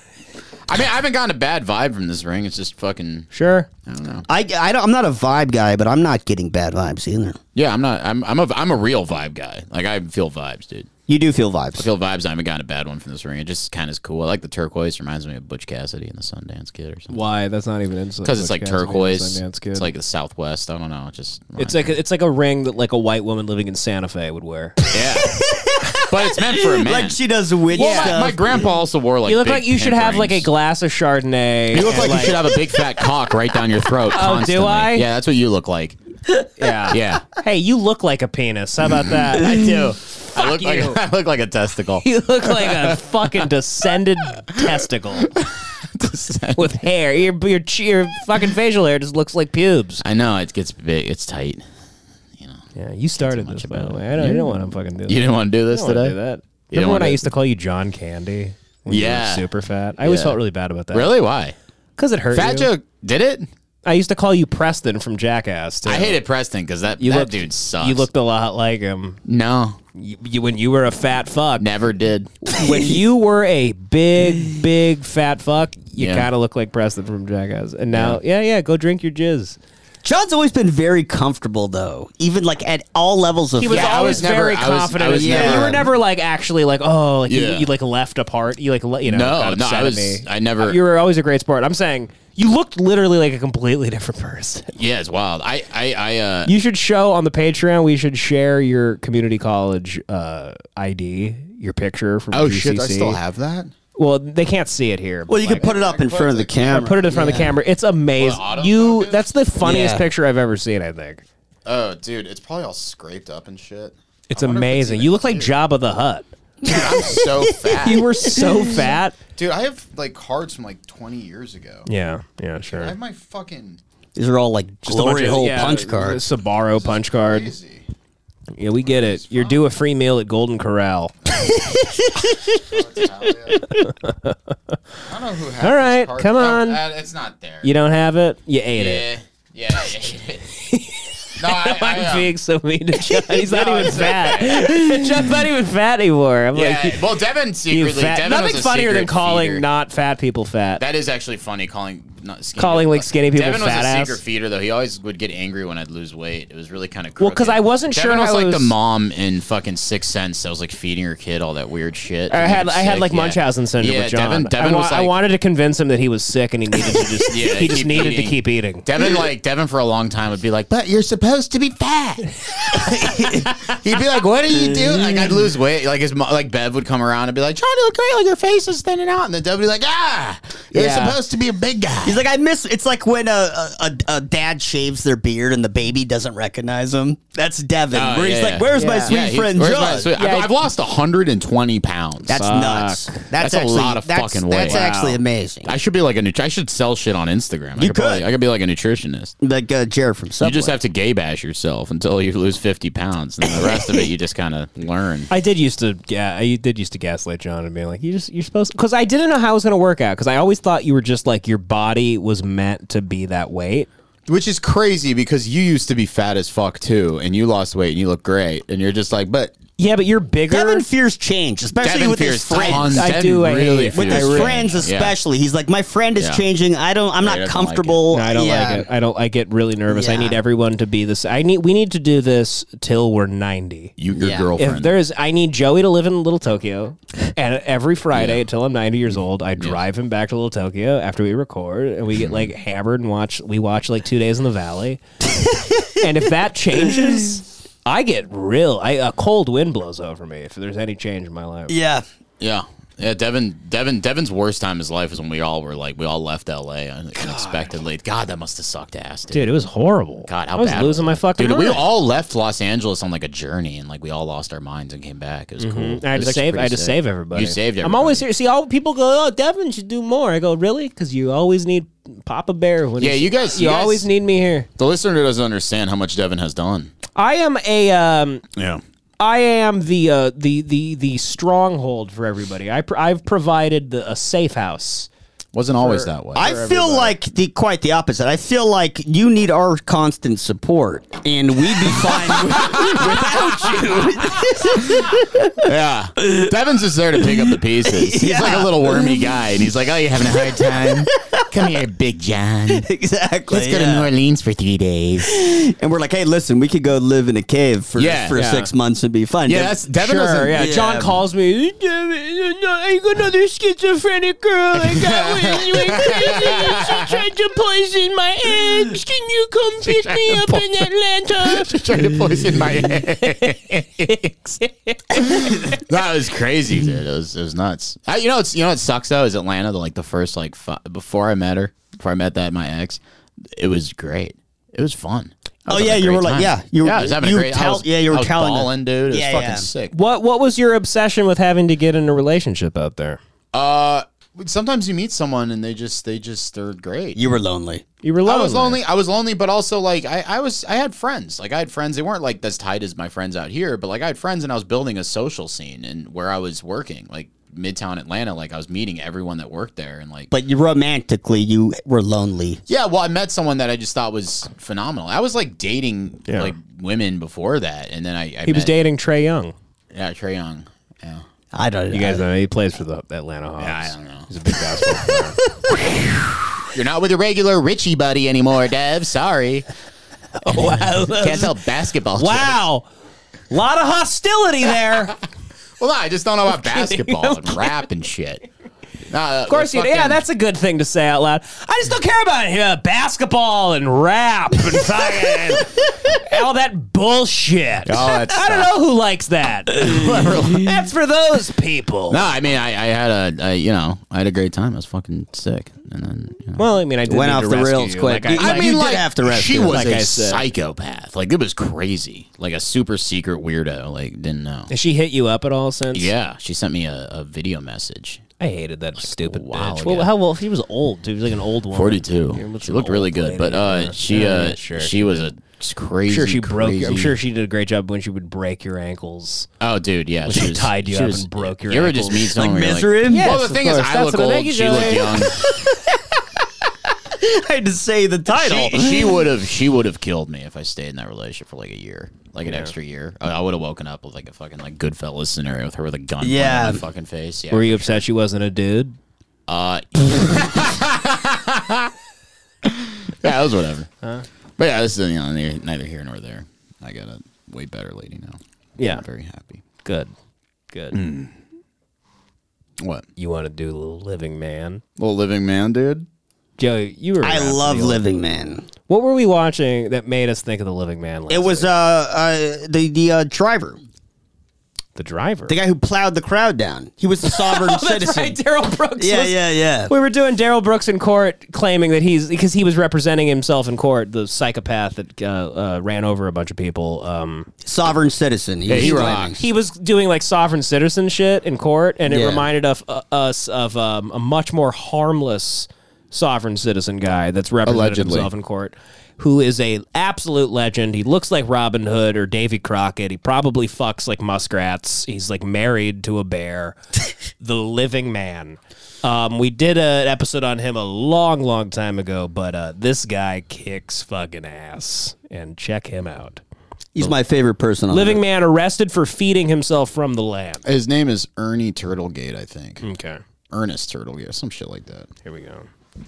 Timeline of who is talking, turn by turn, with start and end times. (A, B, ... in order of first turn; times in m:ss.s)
0:00.7-0:03.3 A
0:03.3-0:03.7 B
0:03.8-0:04.2 A
0:04.3-0:07.4 C
0:07.5-0:10.9 A
0:11.1-0:11.9 C
0:11.8-0:17.2 A
0:17.1-0:19.9 B
0:18.2-0:22.0 A
0:21.6-0:24.8 B
0:24.9-0:25.4 A
0:25.4-0:28.7 C
0:26.0-0:27.2 A
0:27.7-0:28.1 B
0:27.7-0:30.5 A
0:29.3-0:32.4 B
0:31.7-0:36.0 A
0:34.1-0:35.0 B
0:36.6-0:39.7 B
0:36.9-0:37.2 A
0:39.3-0:43.4 A
0:40.3-0:41.0 B
0:42.0-0:45.3 B
0:45.3-0:46.7 A
0:46.6-0:50.0 B
0:50.0-0:51.6 A
0:52.4-0:52.6 A
0:52.8-1:01.1 B
0:53.2-0:56.2 A
0:56.7-0:57.3 A
0:58.9-0:59.5 A
1:00.0-1:00.4 A
1:00.9-1:01.5 A
1:02.0-1:02.7 B
1:02.3-1:03.5 A
1:03.8-1:06.2 B
1:05.8-1:08.1 A
1:07.0-1:09.2 B
1:09.2-1:09.8 A
1:09.9-1:11.7 B
1:11.6-1:12.3 A
1:12.5-1:19.6 B
1:16.0-1:16.3 A
1:17.9-1:18.2 A
1:20.0-1:24.3 C
1:23.6-1:34.7 B
1:23.7-1:25.9 A
1:25.1-1:25.8 C
1:27.3-1:27.7 A
1:29.0-1:30.8 A
1:34.8-1:36.5 A
1:36.4-1:43.2 B
1:42.3-1:43.7 A
1:44.0-1:45.7 B
1:45.3-1:47.6 C
1:45.5-1:46.9 A
1:46.6-1:51.2 B
1:48.2-1:49.3 A
1:49.6-1:50.0 C
1:51.6-1:55.5 A
1:54.3-1:56.3 B
1:56.6-1:58.9 C
1:56.6-1:58.4 A
1:57.8-1:59.2 B
1:59.3-2:01.9 A
2:01.9-2:02.9 B
2:02.7-2:03.8 A
2:04.1-2:06.2 C
2:04.8-2:07.5 B
2:06.7-2:07.8 A
2:08.6-2:11.1 B
2:08.8-2:09.7 A
2:11.3-2:11.6 A
2:12.5-2:13.7 A
2:13.6-2:14.7 B
2:15.1-2:17.7 A
2:15.6-2:16.8 B
2:17.6-2:19.0 B
2:18.8-2:20.5 A
2:20.7-2:27.0 B
2:21.4-2:22.3 A
2:23.0-2:25.3 A
2:26.5-2:29.6 A
2:27.7-2:30.8 B
2:30.8-2:45.1 A
2:32.6-2:34.2 B
2:37.2-2:38.7 B
2:42.3-2:48.8 B
2:47.3-3:02.2 A
2:54.7-2:55.3 C
3:00.7-3:01.2 C
3:02.0-3:10.1 C
3:07.9-3:12.4 A
3:08.7-3:09.2 B
3:10.1-3:10.5 B
3:12.3-3:15.7 C
3:12.3-3:13.3 B
3:13.4-3:14.8 A
3:14.7-3:15.2 B
3:15.6-3:19.3 A
3:17.8-3:18.2 C
3:19.4-3:20.7 C
3:20.4-3:25.3 A
3:23.5-3:23.8 C
3:25.3-3:33.9 B
3:34.3-3:39.5 A
3:39.8-3:40.8 B
3:40.5-3:43.1 C
3:41.8-3:45.2 A
3:42.6-3:44.6 B
3:43.9-3:48.9 C
3:46.2-3:46.4 A
3:47.2-3:48.0 A
3:48.1-3:53.9 B
3:49.9-3:50.4 C
3:54.0-3:55.0 A
3:54.2-3:54.5 C
3:54.6-4:05.0 B
3:58.1-3:58.4 A
4:02.2-4:02.5 A
4:05.5-4:05.8 C
4:06.0-4:11.8 B
4:06.9-4:07.2 C
4:11.7-4:12.0 C
4:12.4-4:19.5 A
4:17.2-4:17.6 B
4:19.3-4:21.8 B
4:20.2-4:28.2 A
4:25.6-4:34.7 B
4:33.0-4:34.1 A
4:34.8-4:36.9 A
4:37.1-4:38.4 B
4:38.6-4:38.8 A
4:39.2-4:45.1 B
4:45.5-4:47.1 A
4:45.8-4:46.1 B
4:46.3-4:55.5 C
4:52.5-4:53.4 A
4:55.6-5:02.8 A
4:56.2-4:56.5 C
4:57.2-4:59.3 C
5:00.2-5:01.2 C
5:02.7-5:04.1 C
5:03.5-5:05.4 A
5:05.2-5:09.7 C
5:08.0-5:08.4 A
5:08.3-5:08.7 B
5:09.4-5:10.7 A
5:10.0-5:21.8 B
5:10.5-5:11.2 C
5:14.8-5:17.2 A
5:19.9-5:20.8 A
5:21.4-5:24.3 A
5:23.2-5:25.8 B
5:25.3-5:33.0 A
5:33.5-5:39.9 A
5:35.7-5:39.7 C
5:39.9-5:43.2 B
5:43.5-5:47.2 A
5:47.1-5:47.8 C
5:48.0-5:48.8 B
5:48.2-6:00.3 A
6:00.3-6:02.6 C
6:02.7-6:08.8 A
6:06.3-6:06.5 B
6:08.4-6:09.5 B
6:09.9-6:11.2 A
6:11.5-6:12.2 C
6:11.9-6:15.4 B
6:13.6-6:14.3 A
6:16.7-6:19.7 A
6:20.4-6:21.5 B
6:21.1-6:22.6 A
6:22.2-6:22.9 B
6:23.5-6:25.1 B
6:25.8-6:28.4 A
6:26.5-6:27.8 B
6:29.1-6:30.2 A
6:29.5-6:42.2 B
6:37.8-6:38.7 A
6:39.8-6:40.8 A
6:42.1-6:46.6 A
6:46.6-6:48.9 B
6:47.1-6:50.0 C
6:48.3-6:54.7 A
6:49.6-6:50.4 B
6:54.7-6:56.1 B
6:55.9-6:58.2 A
6:58.4-7:05.3 B
6:59.0-7:00.1 A
7:01.7-7:07.2 A
7:06.1-7:09.5 B
7:09.6-7:15.4 A
7:10.2-7:12.3 B
7:12.3-7:13.7 C
7:13.1-7:15.2 B
7:17.2-7:19.2 C
7:18.4-7:28.0 A
7:22.4-7:22.7 B
7:26.2-7:26.8 C
7:27.5-7:29.0 B
7:29.5-7:31.9 A
7:32.6-7:33.9 A
7:34.6-7:39.6 A
7:38.8-7:39.0 B
7:39.8-7:40.1 B
7:40.7-7:41.0 B
7:40.9-7:41.3 A
7:42.8-7:43.0 A
7:43.2-7:44.8 B
7:45.0-7:46.0 A
7:46.6-7:48.0 B
7:47.2-7:48.7 C
7:48.9-7:51.7 B
7:51.3-7:53.8 C
7:55.0-7:55.6 B
7:55.5-7:58.4 C
7:57.3-7:59.4 B
7:59.0-7:59.9 C
7:59.9-8:07.5 B
8:07.6-8:09.4 C
8:08.7-8:09.4 A
8:08.8-8:26.8 B
8:12.1-8:12.5 C
8:17.6-8:18.3 A
8:27.4-8:36.4 B
8:36.9-8:38.2 C
8:37.9-8:40.6 B
8:40.6-8:42.8 A
8:42.8-8:43.2 B
8:43.5-8:45.1 A
8:45.2-8:45.7 B